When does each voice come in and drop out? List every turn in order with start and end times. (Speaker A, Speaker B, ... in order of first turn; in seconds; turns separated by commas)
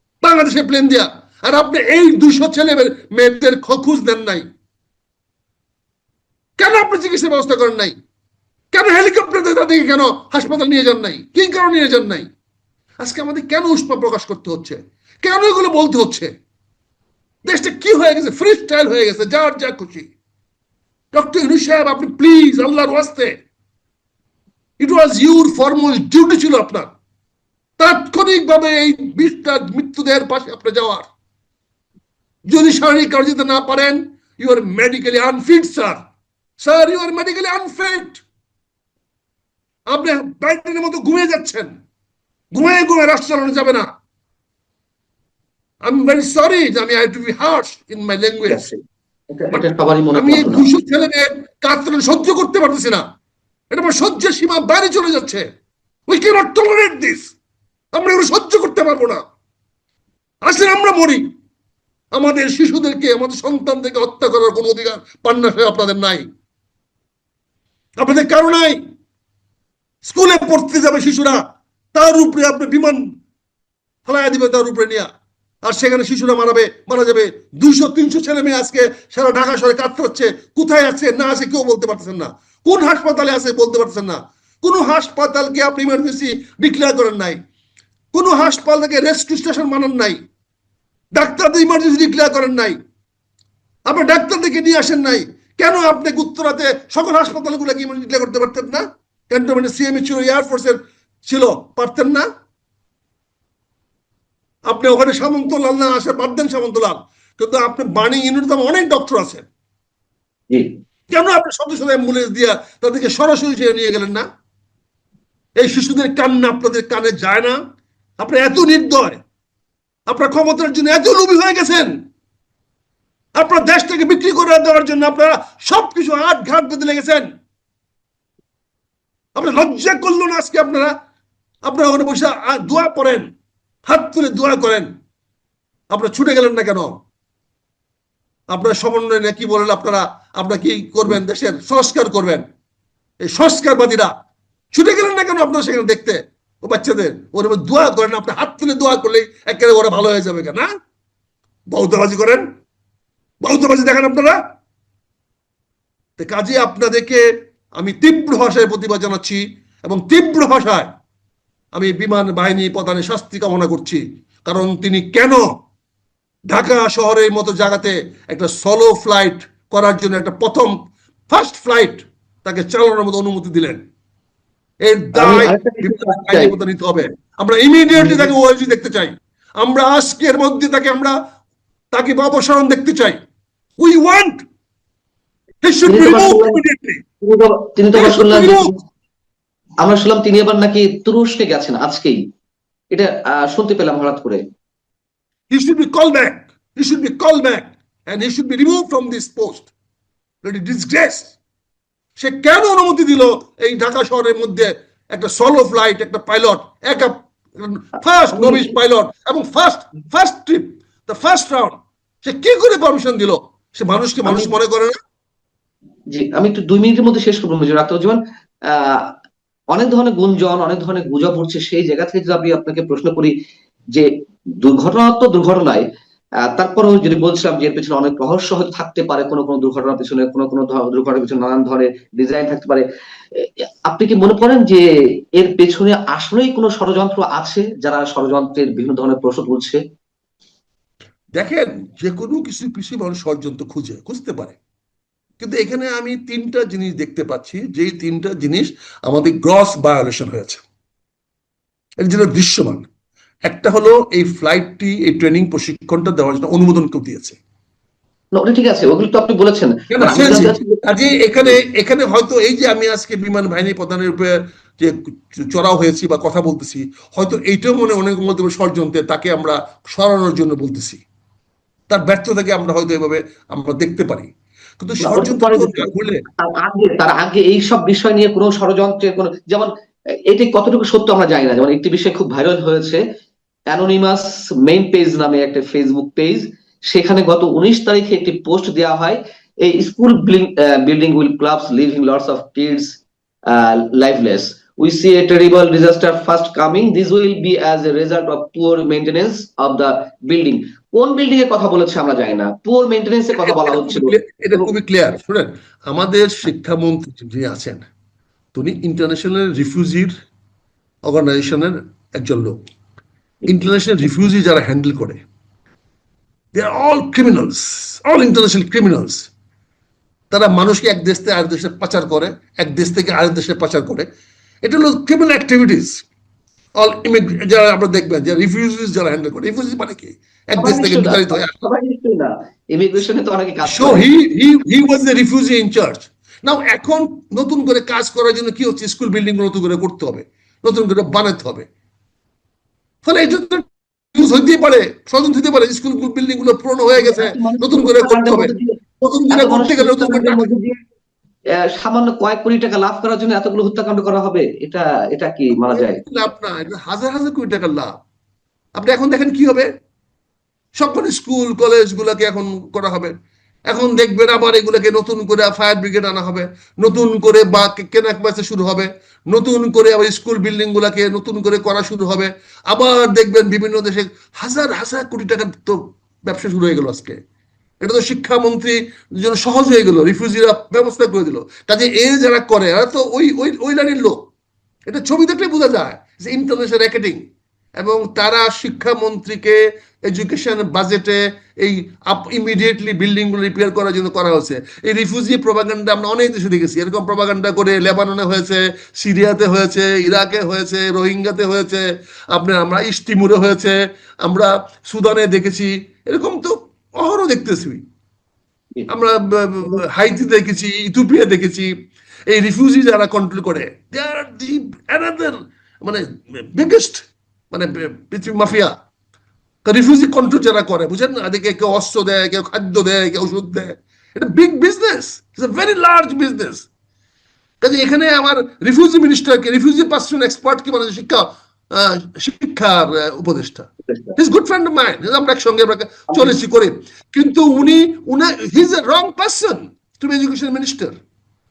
Speaker A: 0.2-4.4, Speaker A: 6.6-7.9, Speaker A: 8.7-12.3, Speaker A: 13.0-16.3, Speaker A: 17.4-20.1, Speaker A: 21.1-23.4, Speaker A: 24.8-26.9, Speaker A: 27.8-31.1, Speaker A: 32.5-36.0, Speaker A: 36.6-38.2, Speaker A: 39.9-41.7, Speaker A: 42.5-43.9, Speaker A: 45.9-48.7, Speaker B: 48.5-48.8, Speaker B: 49.3-50.7, Speaker A: 49.5-53.0, Speaker A: 53.7-55.5, Speaker A: 56.1-57.3, Speaker A: 57.9-59.2, Speaker A: 60.4-61.2, Speaker A: 62.1-66.2, Speaker A: 68.0-68.8, Speaker A: 70.0-71.4, Speaker A: 71.9-73.0, Speaker A: 74.0-75.1, Speaker A: 75.7-87.4, Speaker A: 88.1-90.2, Speaker A: 91.1-92.8, Speaker A: 93.9-102.2, Speaker A: 104.7-109.4, Speaker A: 111.1-114.2, Speaker A: 115.6-117.5, Speaker A: 118.2-119.2, Speaker A: 120.1-121.9, Speaker A: 123.4-127.3, Speaker A: 129.3-130.9, Speaker A: 131.6-133.2, Speaker A: 133.9-134.9, Speaker A: 135.9-137.0, Speaker A: 138.5-142.4, Speaker A: 143.2-144.1, Speaker A: 144.7-150.7, Speaker A: 151.7-152.4, Speaker A: 153.4-154.4, Speaker A: 156.2-157.2, Speaker A: 157.8-160.9, Speaker A: 161.7-165.4, Speaker A: 166.5-170.7, Speaker A: 171.3-173.8, Speaker A: 174.8-181.1, Speaker B: 175.1-176.5, Speaker B: 177.9-178.3, Speaker A: 181.9-183.2, Speaker A: 183.8-184.4, Speaker A: 185.6-187.0, Speaker B: 185.9-186.6, Speaker B: 187.2-188.7, Speaker A: 187.9-188.7, Speaker B: 189.8-192.2, Speaker B: 192.9-194.4, Speaker A: 195.5-199.7, Speaker A: 200.4-201.3, Speaker A: 202.2-214.9, Speaker B: 208.3-208.7, Speaker B: 214.2-214.5, Speaker B: 216.1-219.1, Speaker B: 219.7-223.3, Speaker B: 224.6-225.8, Speaker B: 226.4-239.8, Speaker A: 241.3-244.6, Speaker A: 245.4-250.6, Speaker A: 252.0-252.9, Speaker A: 253.5-257.4, Speaker B: 258.4-260.8, Speaker A: 259.9-271.0, Speaker A: 271.9-276.2, Speaker B: 275.0-279.7, Speaker B: 280.3-283.0, Speaker B: 283.7-293.0, Speaker B: 293.5-304.7, Speaker A: 303.3-307.9, Speaker A: 308.6-310.1, Speaker A: 311.1-312.6, Speaker A: 313.5-315.2, Speaker A: 316.5-319.3, Speaker A: 320.3-324.1, Speaker A: 324.6-326.0, Speaker A: 326.8-331.5, Speaker B: 330.6-334.1, Speaker A: 333.6-341.7, Speaker A: 343.1-350.5, Speaker B: 347.0-348.8, Speaker B: 349.3-350.8, Speaker B: 351.6-356.0, Speaker A: 355.5-357.9, Speaker A: 358.8-359.7, Speaker A: 360.8-363.1, Speaker A: 363.7-377.2, Speaker A: 377.8-384.3, Speaker A: 384.9-387.2, Speaker A: 387.8-407.8, Speaker A: 408.9-411.7, Speaker A: 412.3-418.7, Speaker A: 419.6-426.7, Speaker A: 427.6-440.9